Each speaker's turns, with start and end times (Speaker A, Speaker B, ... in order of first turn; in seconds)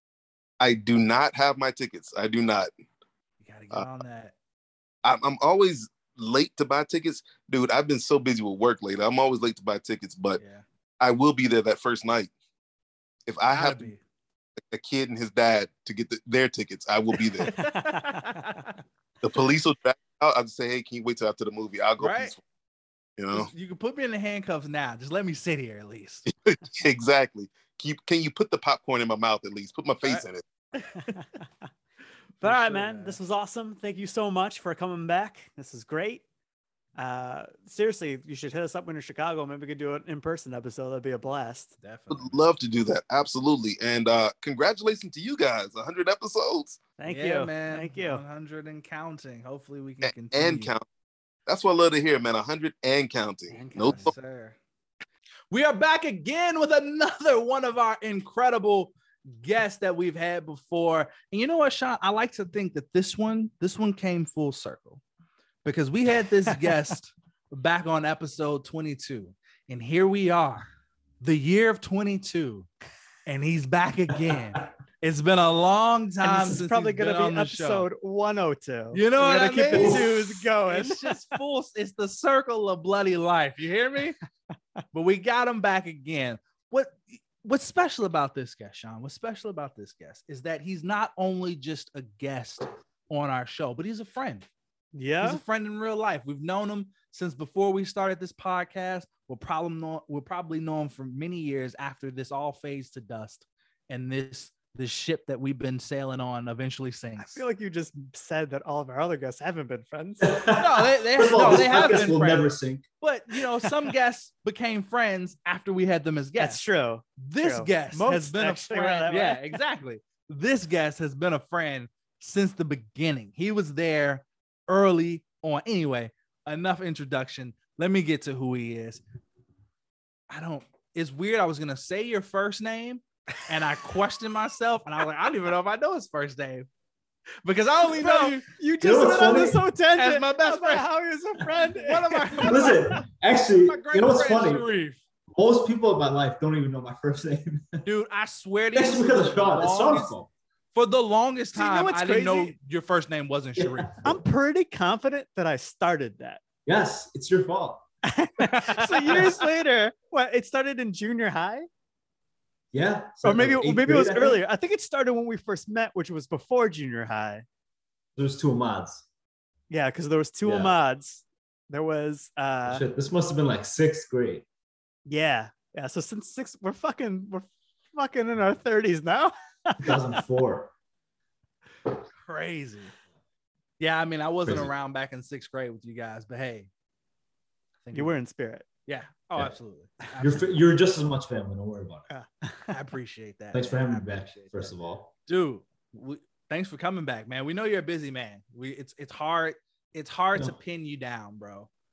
Speaker A: 0.6-2.7, 5.0-10.4, 11.0-12.3, 13.3-13.9, 14.7-17.5, 19.2-22.4, 23.2-23.5, 26.5-30.4, 42.1-46.8, 50.0-50.8, 51.5-54.1
Speaker B: 3.4-4.3, 10.4-10.7, 13.5-14.0, 17.4-18.8, 22.0-22.3, 23.3-26.3, 32.4-33.2, 41.8-42.4, 47.1-50.8, 53.5-54.6, 55.5-65.0, 65.6-70.7, 71.2-72.7, 73.3-77.9, 78.9-84.2, 84.9-94.5, 95.2-107.4, 110.6-116.6, 117.2-129.0, 130.3-136.7, 137.4-140.9, 141.6-143.1, 143.7-145.0, 147.8-150.1, 150.7-154.1, 158.4-159.4, 182.2-182.9, 183.8-186.7, 187.8-188.1, 188.9-190.6, 192.7-201.7
Speaker C: 17.5-18.5, 32.4-36.2, 37.0-41.7, 47.0-48.2, 53.5-54.1, 76.2-81.2, 94.9-95.4, 107.2-110.4, 116.4-119.6, 137.9-143.0, 151.6-152.5, 154.0-156.4, 158.1-161.7, 163.2-167.5, 169.7-172.8, 175.1-180.1, 187.9-188.7, 192.1-192.8
Speaker D: 79.6-80.1, 110.2-112.9, 138.8-139.6, 142.4-144.7, 145.3-147.8, 148.7-150.3, 153.6-154.2, 156.7-157.8, 159.1-159.4, 162.7-164.4, 168.2-169.1, 170.4-170.8, 172.7-174.5, 179.8-180.7, 184.4-184.7, 190.2-192.1, 193.5-195.2